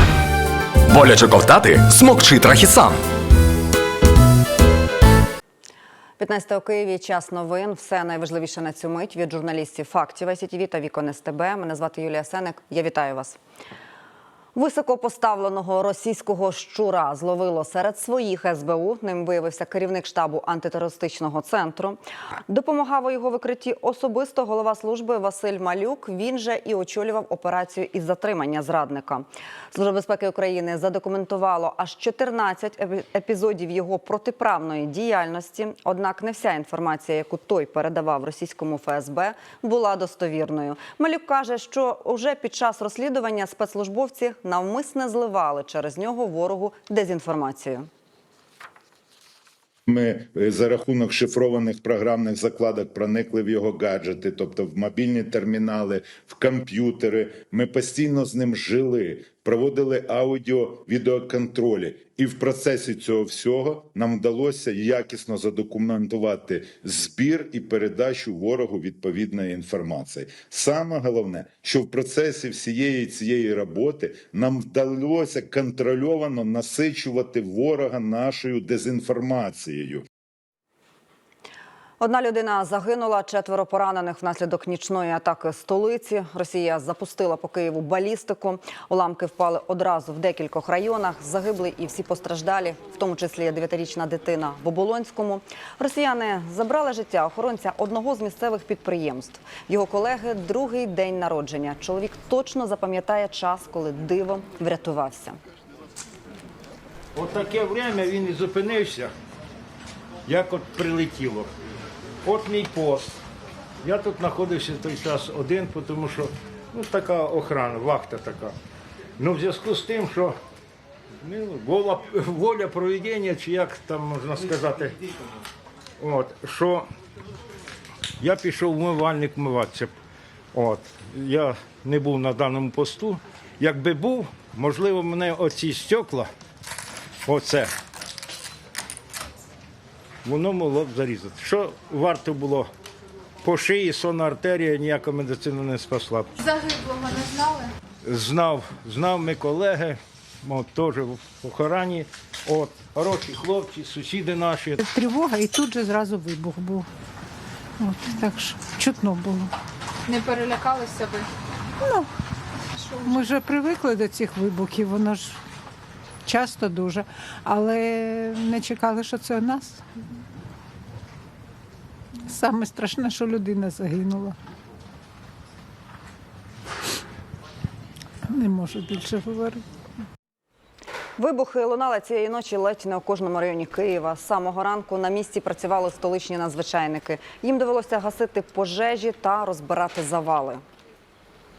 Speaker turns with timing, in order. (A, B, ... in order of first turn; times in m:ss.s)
0:00.9-0:02.9 A
0:06.2-0:13.4 B
0:14.5-0:47.9 B
0:49.9-1:20.0 C
1:22.0-1:45.4 B
1:47.1-1:49.1 D
1:50.3-1:51.5 D
1:52.2-1:53.2 D
1:53.8-1:58.5 D
1:59.2-2:00.4 D
2:01.2-2:05.0 D
2:06.0-2:06.8 D
2:08.2-2:09.9 D
2:10.5-2:16.3 D
2:17.2-2:17.7 D
2:20.2-2:22.7 D
2:23.4-2:26.3 D
2:26.4-2:27.7 E
2:28.0-2:34.8 D
2:34.8-2:36.9 F
2:37.8-2:39.5 F
2:40.1-2:41.2 E
2:43.0-2:45.4 F
2:46.2-2:49.8 F
2:52.3-2:54.4 F
2:58.3-2:59.6 F
3:01.2-3:10.6 B